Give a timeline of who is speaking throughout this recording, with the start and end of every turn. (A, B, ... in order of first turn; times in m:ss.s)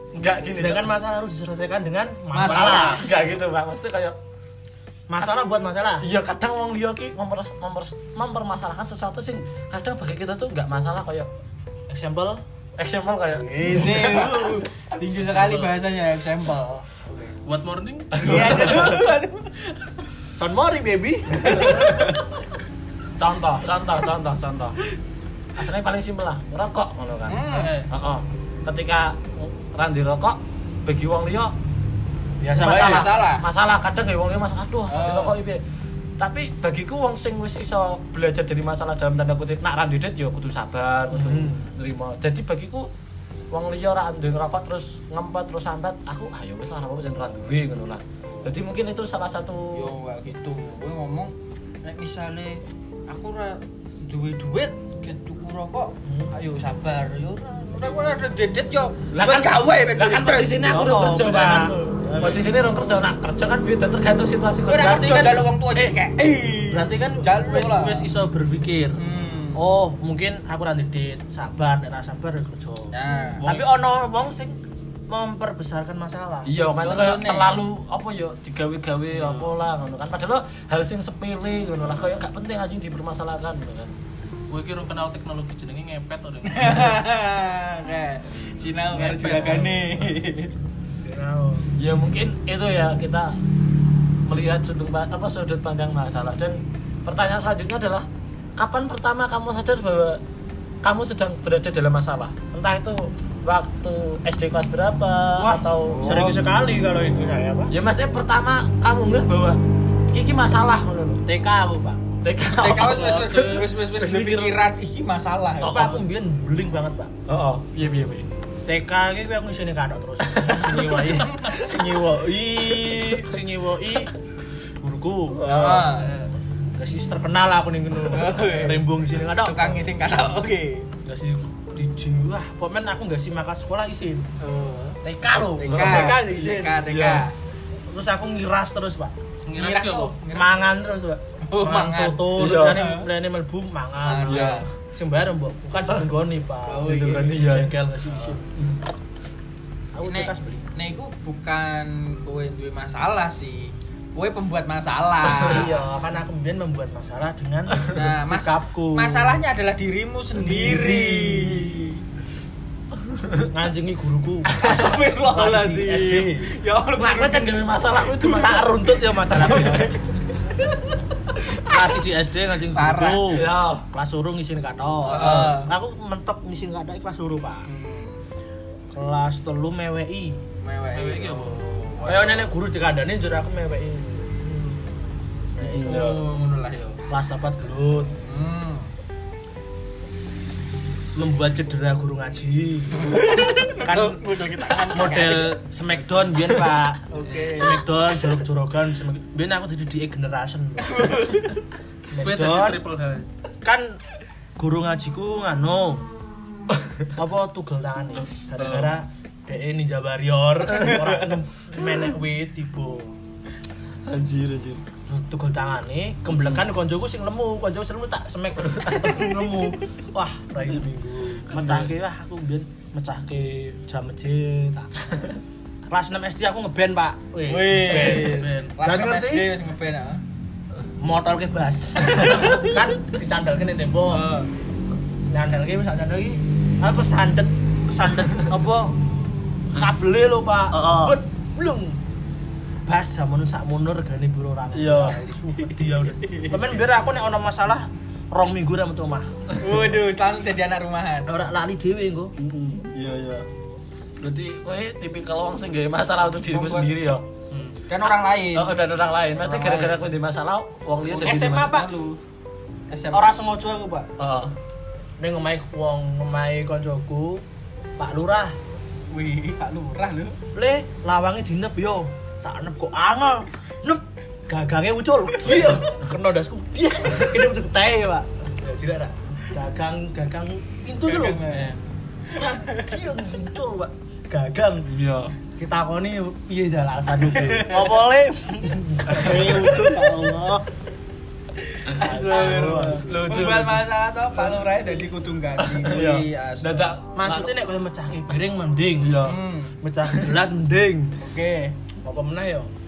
0:00.1-0:01.0 A
0:00.5-0:03.0 B
0:02.3-0:03.0 C
0:02.4-0:04.2 A
0:05.1-0:06.0 B
0:06.0-0:11.3 A
0:11.9-0:12.4 B
0:12.8-0:15.7 A
0:13.5-0:17.3 C
0:13.7-0:14.5 B
0:17.4-0:18.8 D
0:18.2-0:18.9 A
0:18.2-0:19.6 C
0:20.3-0:22.1 B
0:21.4-0:22.1 C
0:23.2-0:24.8 A
0:25.6-0:31.5 A
0:27.3-0:27.7 C
0:27.5-0:27.9 D
0:32.4-0:33.1 B
0:32.6-0:35.6 A
0:32.6-0:33.4 C
0:34.9-0:35.4 C
0:36.2-0:42.9 A
0:41.1-0:41.7 B
0:43.5-0:49.9 A
0:49.7-1:00.8 C
0:56.0-0:56.3 B
0:59.1-1:05.4 A
1:00.7-1:02.6 B
1:04.7-1:08.0 C
1:04.7-1:09.0 B
1:09.0-1:09.6 C
1:09.5-1:14.6 B
1:12.9-1:13.6 C
1:15.1-1:16.5 B
1:16.4-1:23.9 A
1:16.8-1:17.5 C
1:19.2-1:19.5 D
1:24.5-1:26.9 D
1:26.4-1:30.5 C
1:28.9-1:29.7 D
1:29.2-1:29.8 B
1:31.0-1:31.7 B
1:31.8-1:33.4 A
1:34.2-1:40.2 A
1:40.8-1:46.4 A
1:45.4-1:46.2 C
1:46.0-1:47.7 B
1:47.7-1:51.2 A
1:51.2-1:52.0 B
1:52.2-1:54.6 A
1:52.5-1:56.0 C
1:52.8-1:53.7 D
1:55.6-1:55.9 A
1:55.6-1:57.1 B
1:57.3-1:58.3 A
1:58.7-2:04.2 B
2:00.2-2:00.9 A
2:01.0-2:01.7 C
2:04.8-2:05.8 B
2:05.3-2:05.9 A
2:05.4-2:06.1 C
2:06.0-2:06.3 D
2:06.7-2:09.8 B
2:08.0-2:10.9 C
2:11.0-2:14.3 B
2:14.4-2:15.0 C
2:15.0-2:16.8 B
2:15.5-2:17.3 C
2:15.6-2:17.2 A
2:17.9-2:19.2 B
2:19.4-2:20.2 D
2:19.5-2:20.5 C
2:20.3-2:28.4 B
2:21.5-2:23.1 C
2:22.3-2:22.9 A
2:24.0-2:24.7 C
2:24.2-2:24.7 A
2:26.7-2:27.4 C
2:26.8-2:28.8 A
2:29.9-2:30.7 B
2:30.0-2:35.7 C
2:35.3-2:35.9 A
2:35.5-2:39.4 B
2:37.8-2:42.0 C
2:40.3-2:41.7 B
2:43.0-2:43.5 A
2:43.5-2:46.5 B
2:44.6-2:47.7 C
2:47.0-2:49.8 A
2:48.2-2:49.9 B
2:49.5-2:49.9 C
2:51.6-2:57.7 B
2:52.7-2:53.5 C
2:53.3-2:53.8 A
2:55.0-2:55.7 C
2:57.6-2:58.2 C
2:58.9-3:00.4 B
3:00.6-3:02.5 C
3:00.9-3:01.9 D
3:02.0-3:04.9 B
3:05.5-3:06.2 B
3:05.6-3:06.2 A
3:05.8-3:07.0 C
3:07.1-3:08.2 B
3:08.2-3:08.9 C
3:11.1-3:13.2 B
3:13.0-3:15.6 C
3:13.8-3:14.2 B
3:14.8-3:21.3 B
3:17.1-3:17.8 C
3:20.9-3:21.5 C
3:22.1-3:22.8 B
3:22.2-3:23.3 D
3:23.6-3:24.0 B
3:24.6-3:26.0 B
3:26.7-3:27.0 A
3:27.1-3:33.1 B
3:28.6-3:28.9 A
3:30.8-3:31.1 A
3:34.0-3:34.8 A
3:35.1-3:45.2 B
3:36.3-3:36.7 A
3:38.7-3:39.2 A
3:41.5-3:41.9 A
3:45.9-3:49.5 B
3:47.4-3:50.2 C
3:48.0-3:48.7 D
3:51.0-3:54.3 B
3:54.1-3:54.5 C
3:55.3-3:59.0 B
3:59.7-4:02.0 B
4:00.8-4:01.2 A
4:02.8-4:09.3 B
4:04.7-4:05.2 A
4:05.9-4:06.8 C
4:09.6-4:11.3 C
4:11.3-4:12.3 B
4:12.4-4:13.5 A
4:14.2-4:17.3 A
4:16.5-4:16.9 C
4:17.5-4:17.8 D
4:17.9-4:18.7 C
4:18.5-4:21.8 A
4:19.4-4:20.0 C
4:21.1-4:22.2 C
4:21.2-4:21.9 B
4:22.9-4:23.3 C
4:23.1-4:24.1 B
4:24.2-4:24.5 A
4:25.2-4:27.4 B
4:28.0-4:28.6 B
4:29.1-4:30.4 C
4:30.5-4:41.4 B
4:41.0-4:41.8 C
4:41.5-4:41.8 D
4:42.3-4:43.0 C
4:42.3-4:44.9 B
4:44.9-4:45.3 A
4:45.6-4:50.6 B
4:47.2-4:48.0 C
4:49.1-4:49.4 A
4:49.2-4:50.3 C
4:51.8-4:56.9 C
4:51.9-4:53.4 B
4:52.3-4:53.9 A
4:55.6-4:57.5 A
4:57.1-4:59.3 B
4:59.0-4:59.4 A
4:59.2-4:59.8 C
4:59.8-5:01.2 B
5:00.1-5:00.4 A
5:01.2-5:01.8 C
5:02.0-5:02.7 B